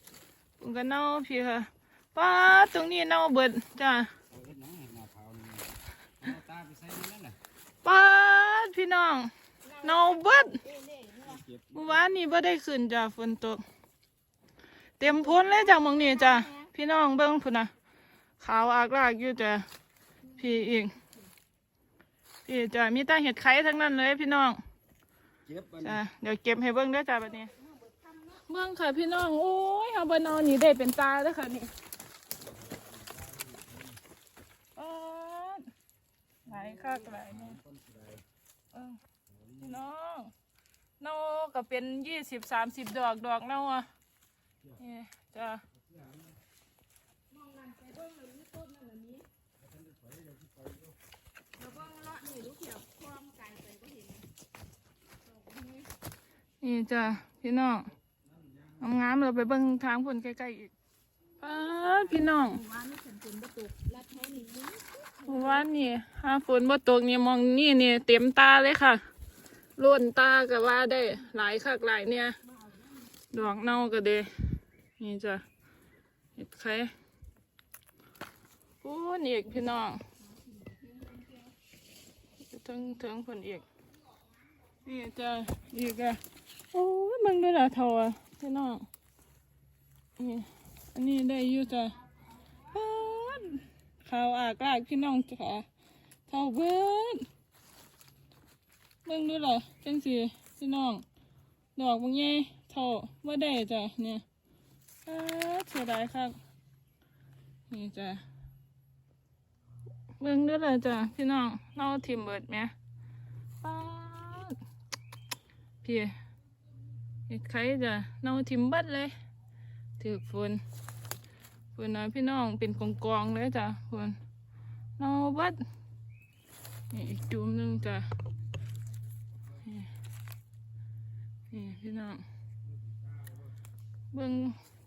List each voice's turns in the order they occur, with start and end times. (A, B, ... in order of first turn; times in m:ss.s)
0:00.6-0:04.1 A
0:04.3-0:07.4 B
0:07.8-0:10.6 A
0:09.6-0:11.4 C
0:11.2-0:12.0 B
0:11.7-0:13.6 A
0:15.0-0:17.7 A
0:15.0-0:16.7 C
0:18.4-0:19.7 A
0:20.4-0:20.9 A
0:22.4-0:24.6 A
0:25.4-0:26.0 B
0:25.8-0:27.5 A
0:27.4-0:28.4 C
0:28.4-0:31.7 A
0:32.7-0:34.0 B
0:34.7-0:35.7 A
0:36.4-0:37.6 A
0:36.4-0:38.2 B
0:38.7-0:39.0 A
0:39.3-0:39.8 B
0:39.6-0:40.3 A
0:41.0-0:43.9 A
0:44.8-0:45.6 A
0:45.9-0:46.3 B
0:47.3-0:49.3 C
0:49.6-0:50.9 B
0:51.6-0:54.3 C
0:55.4-0:55.9 C
0:56.6-0:57.9 A
0:58.8-1:00.7 A
1:01.4-1:02.6 A
1:01.7-1:05.6 C
1:05.2-1:09.0 A
1:09.8-1:12.4 A
1:13.3-1:15.4 A
1:16.4-1:16.9 A
1:18.8-1:20.0 A
1:22.5-1:23.6 A
1:24.8-1:28.8 A
1:30.2-1:32.0 A
1:32.7-1:35.6 A
1:36.3-1:37.3 A
1:39.0-1:41.0 A
1:41.8-1:44.2 A
1:45.0-1:46.4 A
1:47.7-1:48.2 A
1:50.2-1:52.7 A
1:53.6-1:54.6 A
1:55.8-1:56.1 A
1:57.3-1:59.1 A
2:00.0-2:00.6 A
2:01.7-2:04.2 A
2:05.0-2:05.6 A
2:06.9-2:08.1 A
2:09.6-2:09.9 A
2:11.5-2:12.2 A
2:14.1-2:14.6 A